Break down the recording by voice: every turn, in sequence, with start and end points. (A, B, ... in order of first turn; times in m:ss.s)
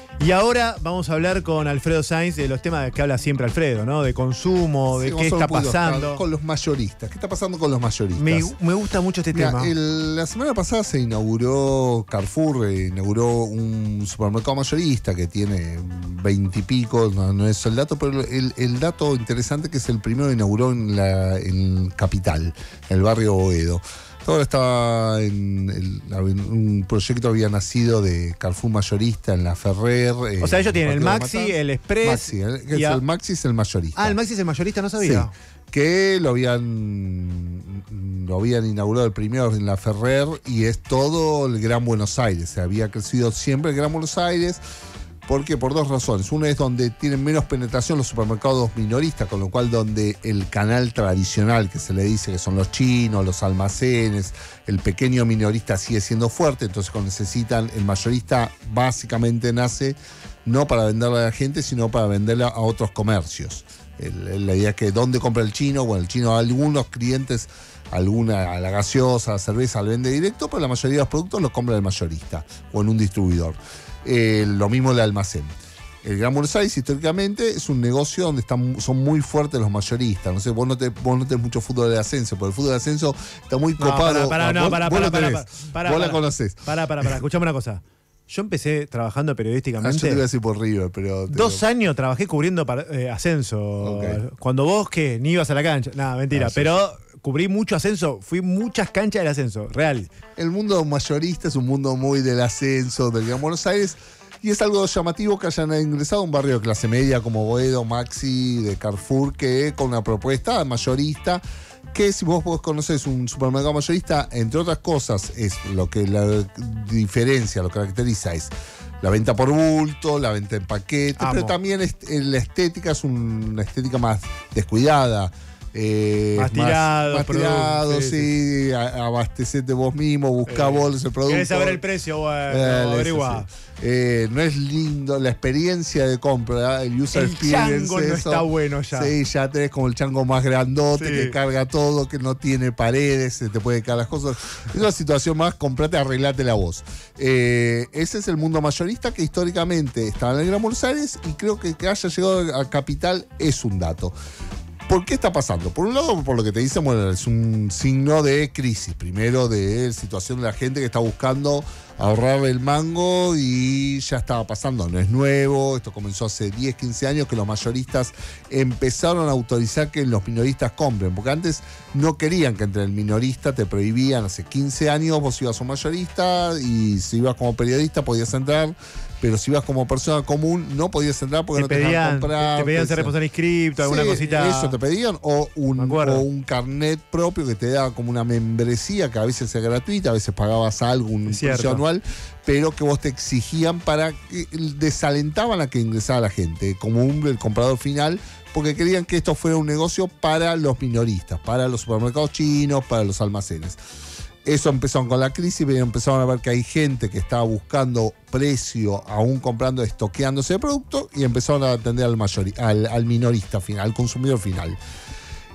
0:00.2-0:06.2 A
0:04.9-0:08.5 B
0:08.2-0:09.7 A
0:09.3-0:34.2 B
0:30.4-0:33.0 A
0:34.0-0:35.3 A
0:35.0-0:44.6 B
0:45.2-1:27.2 B
1:23.8-1:30.2 A
1:29.8-1:31.6 B
1:31.3-1:40.1 A
1:33.8-1:34.2 B
1:36.3-1:36.7 B
1:40.4-1:51.4 B
1:51.9-2:11.8 B
2:01.2-2:01.5 A
2:06.4-2:08.3 A
2:10.5-2:13.4 A
2:12.5-2:34.1 B
2:17.1-2:19.1 A
2:21.0-2:21.4 A
2:34.9-3:03.1 B
3:01.5-3:04.8 A
3:03.8-3:23.8 B
3:05.8-3:06.2 A
3:11.3-3:11.8 A
3:24.4-3:34.8 B